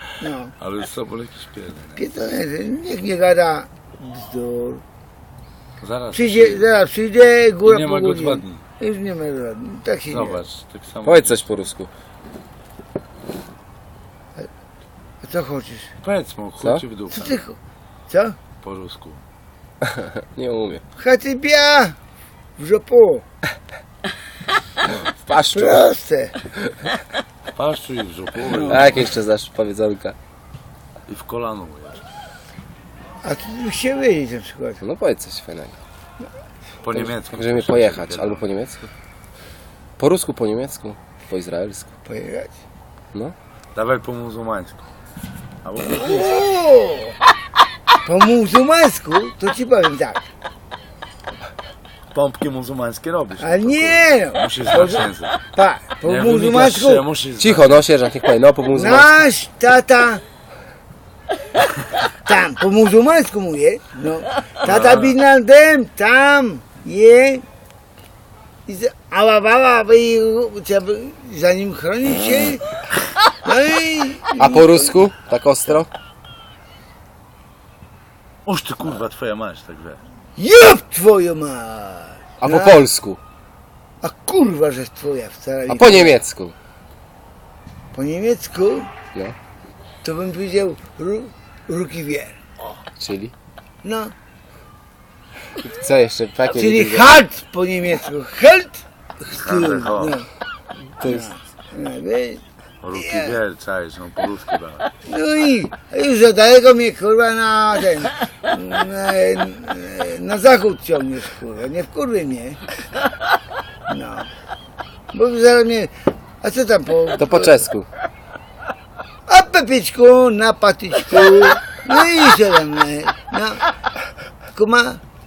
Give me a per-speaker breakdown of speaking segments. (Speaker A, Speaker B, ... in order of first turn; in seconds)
Speaker A: 0.2-0.5, 2.0-4.8, 6.1-10.4, 15.2-15.9, 17.1-17.6, 18.1-18.4, 21.0-21.9, 22.6-23.2, 25.5-26.4, 28.4-29.0, 33.2-34.8, 42.1-42.5, 45.9-47.2, 48.0-50.3, 53.4-57.0, 58.7-60.2, 62.2-67.4, 68.7-72.7, 73.3-75.0, 80.4-82.8, 84.0-86.2, 87.9-88.9, 90.0-92.4, 93.8-94.1, 96.5-100.3, 101.0-102.4, 102.9-103.4, 105.0-112.6, 113.9-114.3, 115.1-115.9, 116.4-117.6, 119.3-123.6, 124.5-125.0
Speaker B: 0.6-2.0, 5.8-6.7, 7.6-8.6, 10.1-11.6, 16.0-17.4, 18.6-19.2, 27.6-29.1, 31.1-32.0, 36.8-38.5, 43.8-44.8, 45.6-46.5, 52.1-55.4, 56.0-57.8, 64.6-65.2, 78.5-80.0, 99.3-100.2, 102.8-104.9
Speaker C: 11.0-11.9, 19.8-20.8, 25.3-25.9, 28.6-30.2, 34.8-35.8, 36.9-38.8, 40.0-41.9, 57.4-59.2, 74.4-75.9, 82.4-83.2, 85.7-86.5, 93.0-93.3, 95.6-97.1, 101.0-101.3, 117.2-117.9